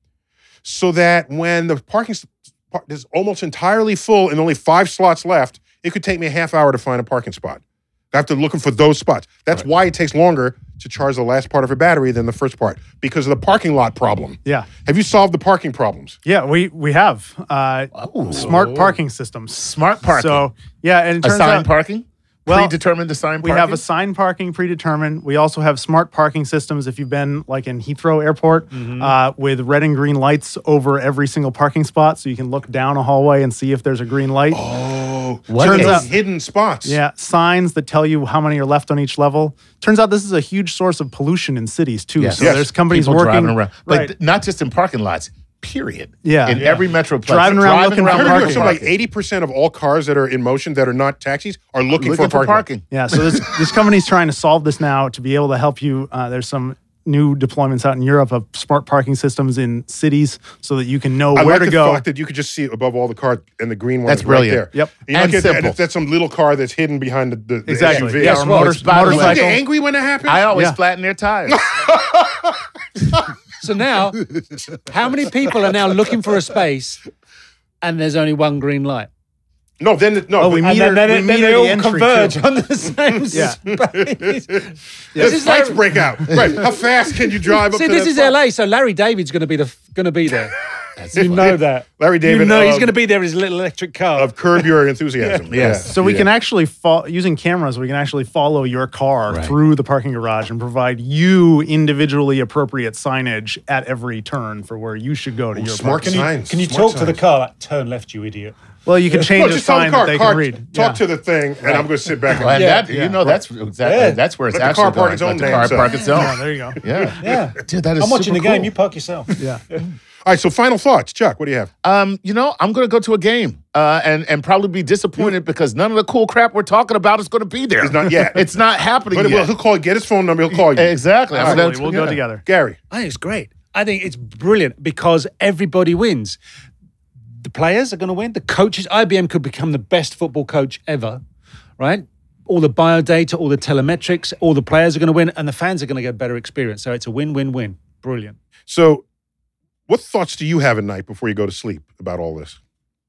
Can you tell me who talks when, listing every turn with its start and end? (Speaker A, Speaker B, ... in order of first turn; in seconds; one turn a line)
Speaker A: 0.6-16.2
Speaker B: 14.4-14.7
Speaker B: 16.3-21.7
Speaker C: 17.9-18.9
Speaker C: 19.5-20.5
Speaker C: 21.2-23.8
Speaker B: 22.5-22.8
Speaker B: 23.4-34.6
Speaker D: 28.7-29.1
Speaker A: 34.5-37.0
Speaker C: 35.5-36.1
Speaker B: 35.6-36.1
Speaker B: 36.8-44.1
Speaker C: 42.2-48.9
Speaker A: 42.4-42.7
Speaker B: 46.2-48.8
Speaker D: 46.6-46.9
Speaker A: 48.1-52.6
Speaker C: 51.9-52.8
Speaker B: 52.9-62.0
Speaker A: 61.3-70.5
Speaker C: 64.0-65.8
Speaker B: 67.7-69.6
Speaker D: 67.8-69.0
Speaker C: 68.3-69.6
Speaker C: 70.3-71.7
Speaker B: 70.5-70.8
Speaker A: 71.5-73.1
Speaker D: 73.6-74.2
Speaker D: 74.9-77.0
Speaker D: 77.8-79.1
Speaker A: 79.8-80.7
Speaker B: 80.4-82.4
Speaker D: 80.6-86.0
Speaker B: 83.3-83.6
Speaker A: 83.7-88.4
Speaker B: 85.1-85.5
Speaker D: 87.4-90.5
Speaker C: 91.0-91.6
Speaker D: 91.1-95.5
Speaker A: 91.1-93.0
Speaker A: 94.1-96.3
Speaker C: 95.5-96.0
Speaker B: 95.9-106.3
Speaker C: 99.3-99.5
Speaker A: 105.5-107.2
Speaker D: 106.0-108.5
Speaker B: 108.9-111.0
Speaker A: 109.2-112.7
Speaker C: 112.3-118.7
Speaker D: 112.5-112.9
Speaker B: 112.9-113.4
Speaker D: 113.8-114.2
Speaker A: 114.5-116.2
Speaker B: 116.0-116.8
Speaker A: 116.8-117.2
Speaker D: 117.2-119.8
Speaker A: 120.2-121.7
Speaker C: 121.8-129.5
Speaker A: 127.8-128.5
Speaker A: 129.1-132.8
Speaker C: 130.7-132.2
Speaker B: 131.3-132.4
Speaker D: 132.9-136.4
Speaker D: 137.4-141.2
Speaker D: 141.8-148.4
Speaker A: 148.7-149.0
Speaker A: 149.9-152.6